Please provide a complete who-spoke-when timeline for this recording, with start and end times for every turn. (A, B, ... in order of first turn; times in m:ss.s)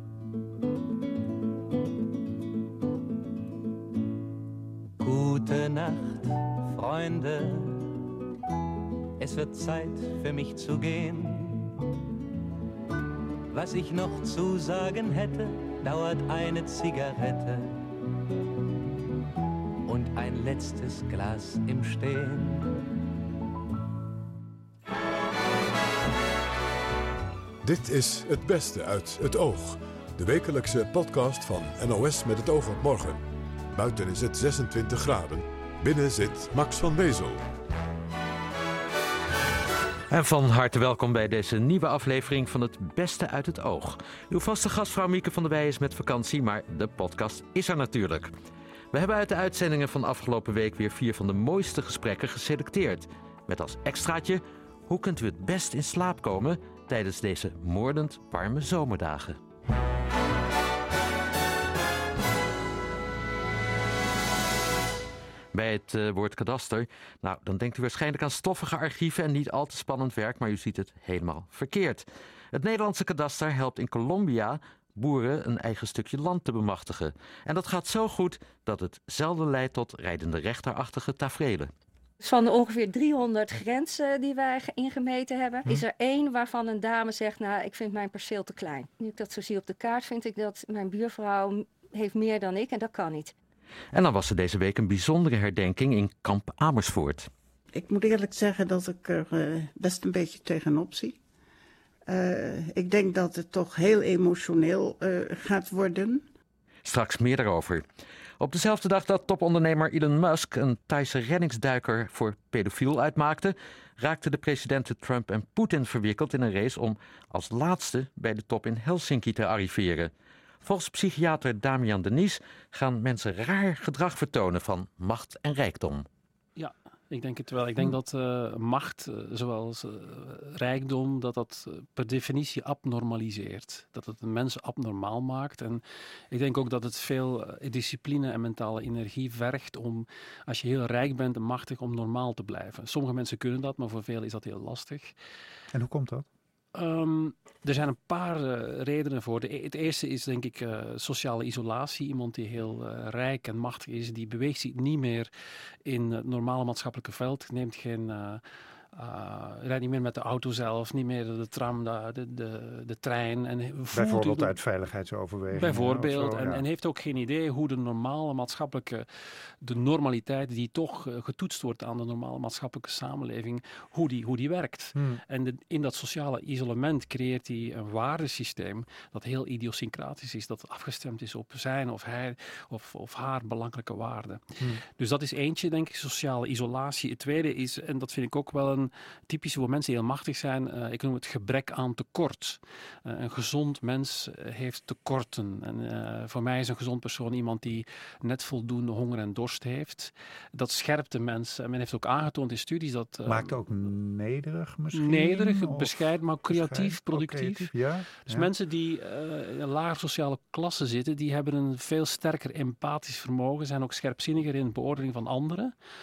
0:05.0-0:08.0 A
0:09.2-0:11.8 A
0:13.5-0:17.8 A
0:19.8-0:22.7 A
0:27.6-0:37.4 B
0:40.1-0:48.3 C
0:48.9-0:59.4 C
1:05.5-1:21.7 C
1:22.2-1:33.3 D
1:33.9-1:37.3 C
1:37.8-1:41.2 E
1:42.1-1:46.3 E
1:46.8-1:47.8 C
1:48.4-2:00.1 C
2:00.6-2:06.1 C
2:06.6-2:25.1 F
2:25.7-2:26.3 G
2:26.7-2:35.3 F
2:35.8-2:38.4 F
2:38.9-2:44.5 F
2:43.9-2:46.6 G
2:45.5-2:49.1 F
2:49.6-3:23.5 F
3:23.2-3:28.5 G
3:24.9-3:35.7 F